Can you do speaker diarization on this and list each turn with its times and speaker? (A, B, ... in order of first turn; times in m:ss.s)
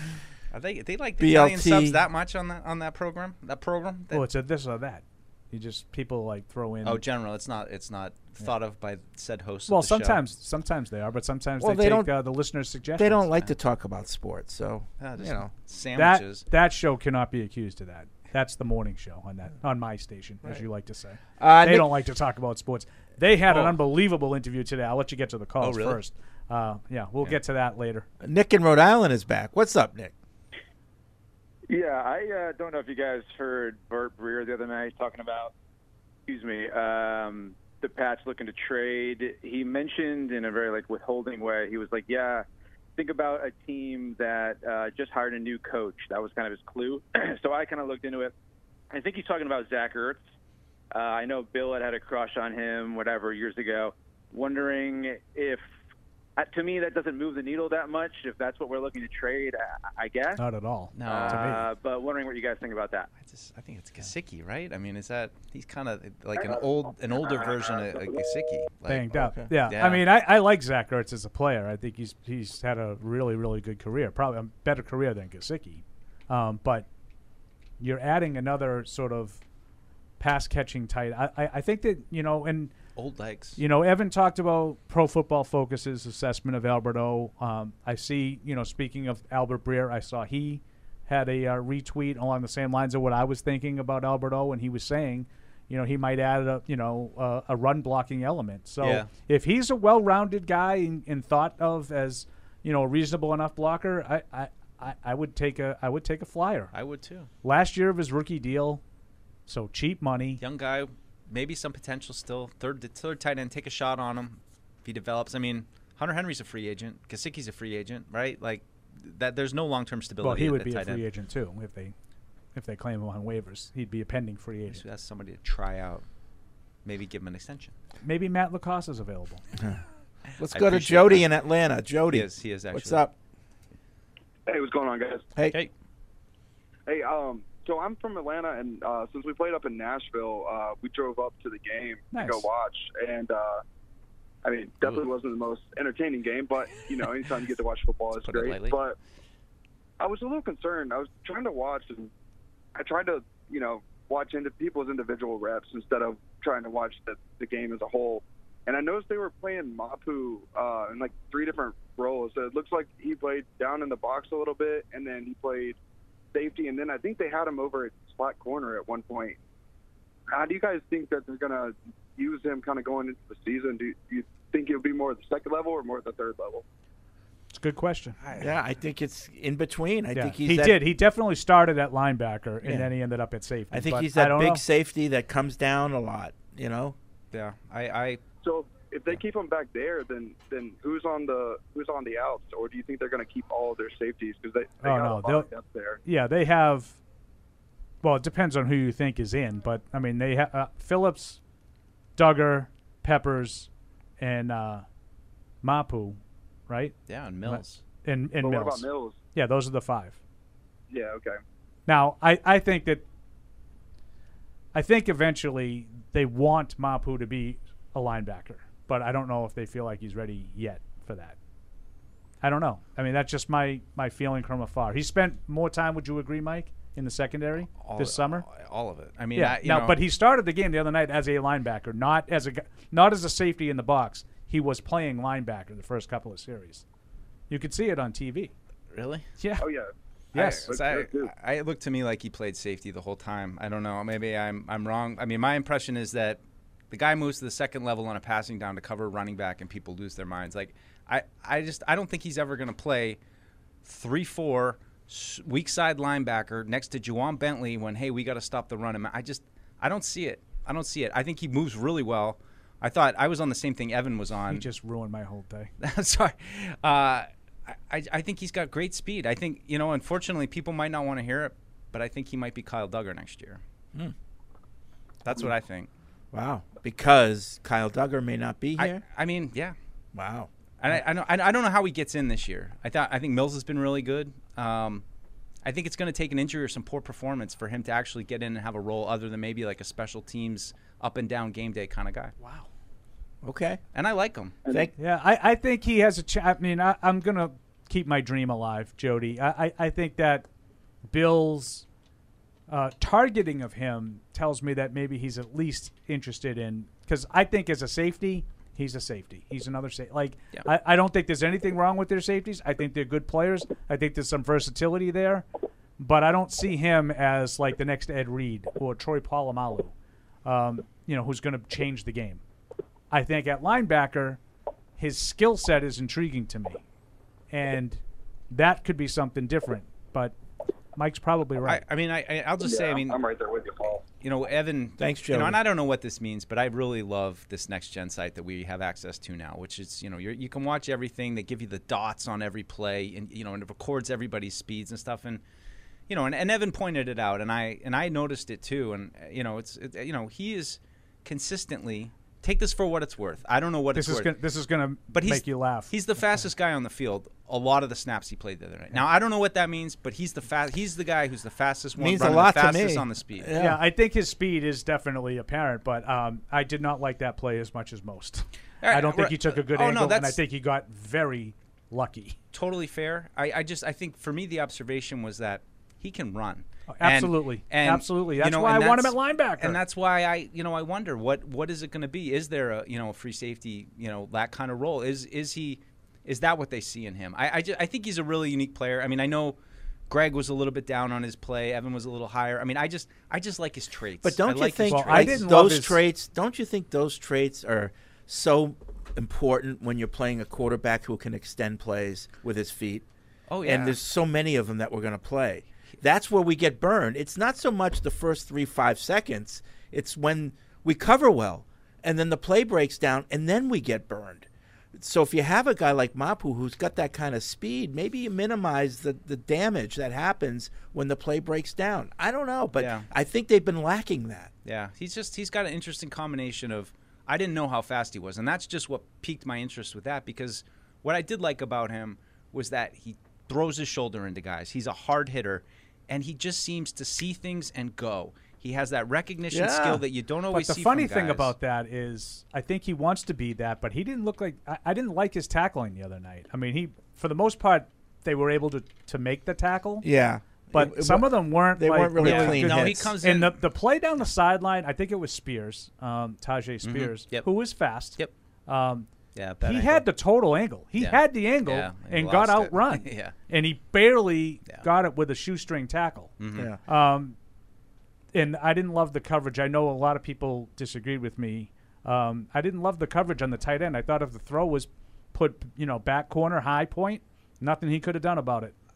0:00.5-0:04.2 A
0:01.2-0:02.0 B
0:04.1-0:07.0 C
0:06.8-0:10.2 A
0:09.7-0:13.3 C
0:11.6-0:12.1 B
0:13.0-0:15.5 B
0:15.0-0:16.5 A
0:16.0-0:28.1 C
0:21.4-0:21.9 B
0:23.4-0:23.8 A
0:25.6-0:26.0 A
0:28.2-0:30.2 B
0:31.7-0:35.5 D
0:36.3-0:42.5 D
0:43.0-0:48.3 D
0:48.9-0:50.3 D
0:50.9-0:55.6 D
0:56.4-1:00.4 D
1:00.4-1:01.7 C
1:01.0-1:01.6 A
1:01.1-1:03.1 D
1:03.2-1:09.1 A
1:08.9-1:16.9 C
1:09.1-1:09.5 B
1:09.6-1:10.0 A
1:17.8-1:19.4 C
1:20.2-1:22.7 C
1:23.0-1:23.6 A
1:23.6-1:46.7 C
1:38.8-1:39.1 A
1:46.7-1:47.3 A
1:47.4-1:48.8 C
1:49.5-1:50.4 C
1:50.4-2:01.0 A
2:00.2-2:01.9 C
2:02.5-2:04.8 C
2:04.7-2:06.0 A
2:06.8-2:07.7 A
2:08.0-2:09.4 C
2:10.4-2:13.1 B
2:10.4-2:11.3 A
2:12.1-2:13.0 A
2:14.5-2:15.2 E
2:16.9-2:23.6 E
2:22.1-2:22.5 C
2:24.4-2:29.0 E
2:24.8-2:25.1 A
2:28.2-2:28.8 A
2:30.0-2:32.1 E
2:32.8-2:45.8 E
2:46.3-2:49.4 E
2:50.3-2:56.6 E
2:57.5-2:58.2 C
2:58.4-3:00.8 B
3:00.1-3:04.6 C
3:02.6-3:02.9 B
3:03.7-3:07.0 B
3:07.3-3:08.2 A
3:08.4-3:16.0 E
3:14.8-3:15.5 C
3:16.0-3:17.0 C
3:18.0-3:21.4 C
3:22.2-3:24.8 C
3:25.6-3:30.2 C
3:27.1-3:27.8 A
3:28.4-3:29.2 E
3:30.9-3:31.4 E
3:31.9-3:33.0 C
3:34.7-3:41.4 C
3:42.4-3:48.5 C
3:47.8-3:50.0 A
3:49.4-3:56.8 C
3:57.5-3:58.5 C
3:58.9-3:59.3 A
3:59.4-3:59.7 C
3:59.6-3:59.9 E
4:00.3-4:00.7 C
4:00.4-4:13.2 A
4:00.7-4:01.3 E
4:13.8-4:24.7 A
4:24.5-4:25.7 C
4:25.8-4:33.6 A
4:35.2-4:35.9 A
4:36.3-4:39.0 B
4:38.8-4:39.8 A
4:40.1-4:40.5 B
4:40.8-4:45.0 A
4:45.6-4:52.3 A
4:52.4-4:52.7 C
4:53.4-4:53.8 B
4:53.9-4:54.6 A
4:54.7-4:54.9 B
4:55.0-5:00.5 C
5:01.1-5:01.8 C
5:02.7-5:15.4 C
5:16.0-5:19.9 C
5:20.4-5:22.4 C
5:23.1-5:24.4 C
5:25.0-5:26.8 C
5:27.5-5:30.4 C
5:31.0-5:31.8 C
5:31.6-5:33.2 A
5:32.6-5:34.0 E
5:34.2-5:45.4 A
5:35.0-5:35.6 B
5:46.1-5:54.3 A
5:54.0-5:55.9 C
5:55.1-6:03.5 A
6:02.0-6:03.8 B
6:03.6-6:12.4 C
6:08.8-6:10.4 A
6:12.5-6:29.6 A
6:16.9-6:19.8 C
6:30.1-6:35.5 A
6:34.2-6:43.1 B
6:34.9-6:36.0 C
6:43.5-6:44.0 A
6:43.6-7:04.5 B
7:02.8-7:03.1 A
7:04.6-7:21.5 A
7:19.5-7:20.0 B
7:20.5-7:30.1 C
7:30.0-7:33.1 B
7:30.7-7:39.1 C
7:32.2-7:33.6 A
7:36.8-7:37.5 A
7:39.4-7:40.1 A
7:39.6-7:46.3 C
7:41.0-7:43.4 A
7:46.4-7:46.7 A
7:46.9-7:47.4 C
7:48.3-7:58.7 C